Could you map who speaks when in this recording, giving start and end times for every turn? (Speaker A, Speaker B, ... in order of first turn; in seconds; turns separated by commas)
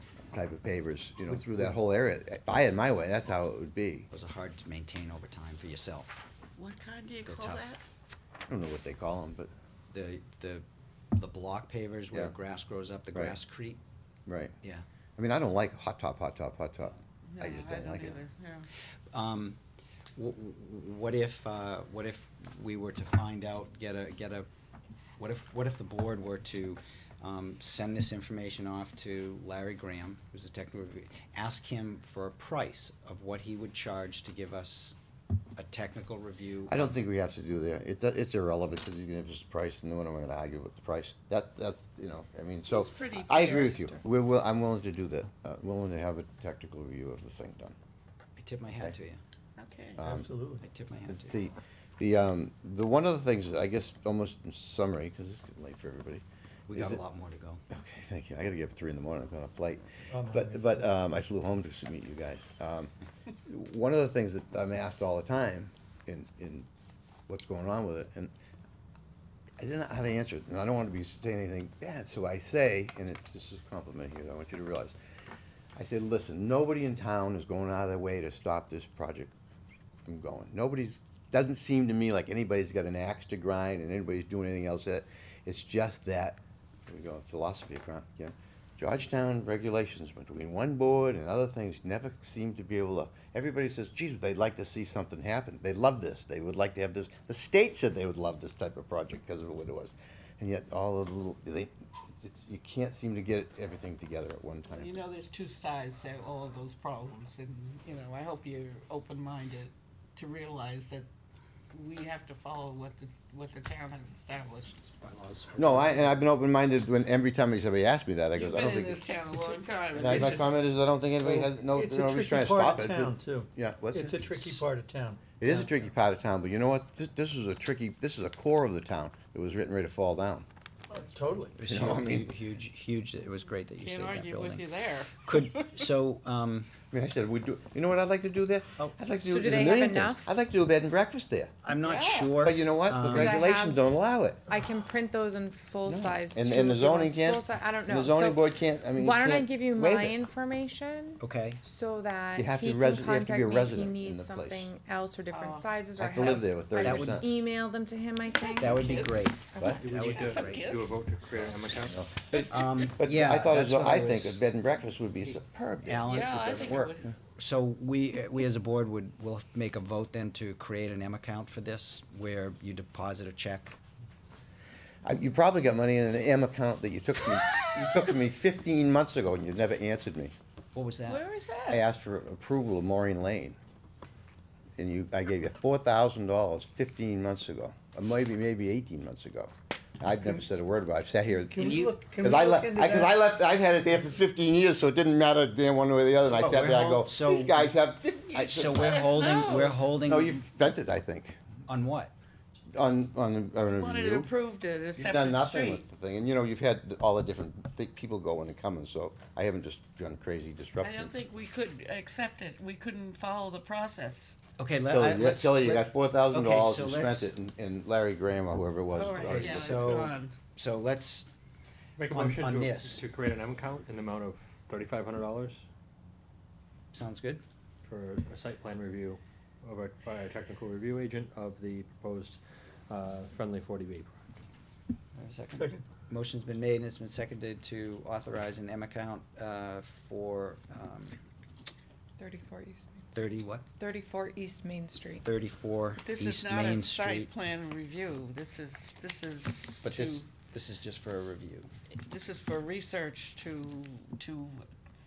Speaker A: 0.3-4.1, Speaker B: 4.1-6.2, Speaker C: 6.6-7.8, Speaker B: 7.2-7.7, Speaker A: 8.5-9.5, Speaker B: 9.9-13.8, Speaker A: 14.3-14.5, Speaker A: 15.2-18.2, Speaker C: 17.3-18.7, Speaker B: 19.1-19.6, Speaker B: 20.1-24.5, Speaker B: 25.2-35.0, Speaker B: 35.5-37.0, Speaker A: 36.7-47.8, Speaker D: 42.7-43.9, Speaker C: 42.8-43.9, Speaker B: 48.4-49.2, Speaker C: 49.6-50.0, Speaker A: 50.0-50.3, Speaker E: 50.0-50.6, Speaker B: 50.5-51.3, Speaker A: 51.1-56.2, Speaker B: 56.7-57.6, Speaker A: 56.7-57.0, Speaker A: 57.7-62.9, Speaker E: 60.1-60.8, Speaker A: 63.5-66.7, Speaker A: 67.3-68.3, Speaker A: 69.6-74.9, Speaker A: 75.8-79.3, Speaker A: 80.0-105.0, Speaker C: 104.7-111.1, Speaker C: 111.7-114.9, Speaker B: 115.0-115.8, Speaker A: 115.5-119.0, Speaker C: 118.3-120.5, Speaker A: 120.0-124.6, Speaker E: 120.0-120.4, Speaker E: 121.1-125.8, Speaker A: 125.4-130.4, Speaker E: 130.9-131.6, Speaker B: 131.5-134.7, Speaker A: 131.6-132.3, Speaker C: 133.8-135.8, Speaker B: 135.2-136.7, Speaker A: 136.9-141.5, Speaker D: 139.3-140.2, Speaker B: 141.6-143.4, Speaker C: 141.8-142.3, Speaker A: 142.4-144.4, Speaker D: 143.1-143.8, Speaker D: 144.5-159.2, Speaker A: 145.8-150.2, Speaker B: 151.2-151.6, Speaker A: 152.3-154.7, Speaker C: 155.3-155.7, Speaker A: 155.9-157.3, Speaker B: 156.8-157.3, Speaker C: 158.3-161.0, Speaker B: 158.5-160.7, Speaker F: 159.6-162.0, Speaker A: 161.9-167.1, Speaker B: 162.5-164.4, Speaker B: 165.8-166.8, Speaker C: 166.0-167.1, Speaker B: 167.3-173.8, Speaker A: 175.0-180.3, Speaker B: 180.7-181.2, Speaker C: 181.1-181.8, Speaker A: 181.7-183.6, Speaker A: 184.8-199.3, Speaker E: 191.5-193.1, Speaker B: 191.6-191.9, Speaker B: 196.2-197.7, Speaker C: 198.3-199.7, Speaker B: 198.4-200.4, Speaker A: 200.0-201.4, Speaker B: 201.7-202.1, Speaker A: 202.7-204.3, Speaker C: 203.8-205.8, Speaker A: 204.9-211.1, Speaker C: 210.8-214.4, Speaker B: 214.6-217.3, Speaker A: 214.9-220.1, Speaker C: 219.0-220.3, Speaker B: 219.0-221.3, Speaker F: 222.0-225.6, Speaker B: 222.1-223.0, Speaker B: 226.9-227.4, Speaker F: 227.8-234.2, Speaker B: 235.1-241.2, Speaker D: 242.2-243.2, Speaker B: 243.1-243.7, Speaker D: 243.8-245.2, Speaker B: 245.2-247.3, Speaker C: 246.0-250.2, Speaker B: 249.8-251.7, Speaker C: 251.9-254.7